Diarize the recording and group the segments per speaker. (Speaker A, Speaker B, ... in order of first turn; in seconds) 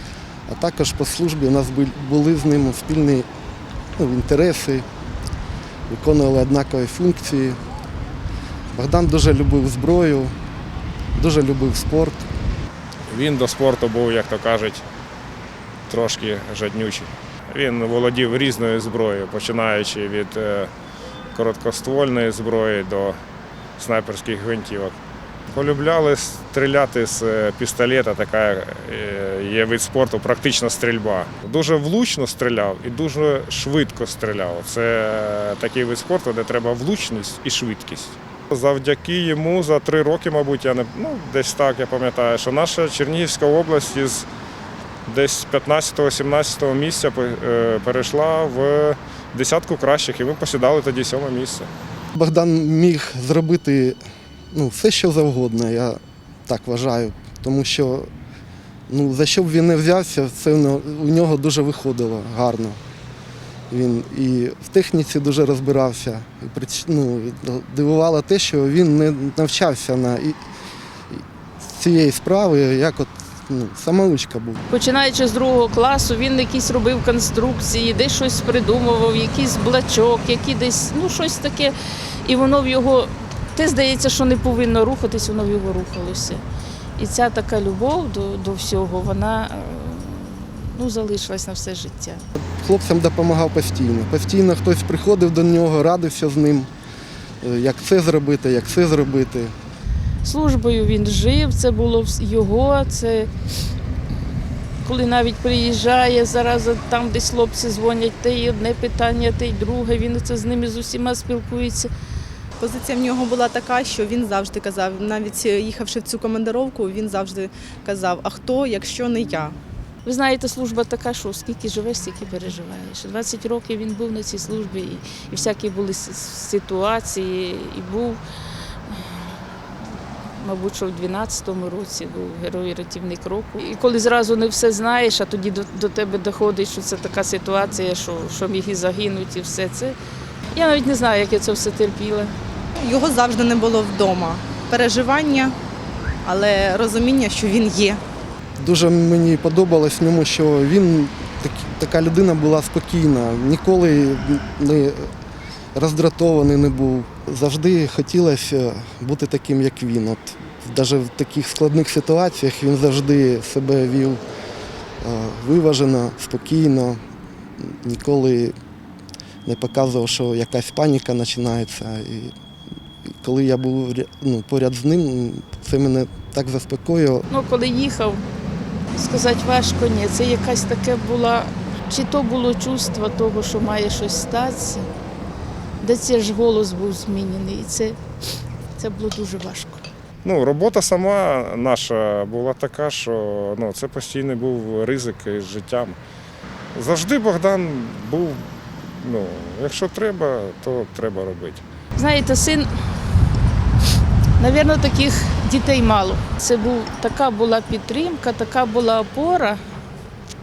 Speaker A: 0.5-3.3, 4.0-4.8, 5.9-7.6, 8.7-10.3, 11.1-12.2, 52.1-54.0, 54.5-58.1, 58.9-62.8, 63.7-70.4, 71.1-74.6, 92.4-96.7, 97.4-99.5, 148.6-155.1, 155.7-164.2, 165.0-167.0, 167.6-168.5, 169.4-172.3, 173.1-177.2
Speaker B: 13.1-14.8, 15.9-20.7, 21.3-23.2, 23.8-24.9, 25.5-44.3, 45.0-51.7, 190.2-196.0, 196.7-201.6
Speaker C: 74.7-86.4, 87.0-92.2, 100.2-103.3, 104.8-111.9, 120.0-128.2, 130.4-139.9, 140.5-142.3, 177.3-178.2, 178.9-184.9, 185.8-188.0, 188.8-189.8, 201.9-202.7, 204.4-209.6
Speaker D: 112.6-119.5, 142.8-145.5, 146.2-148.0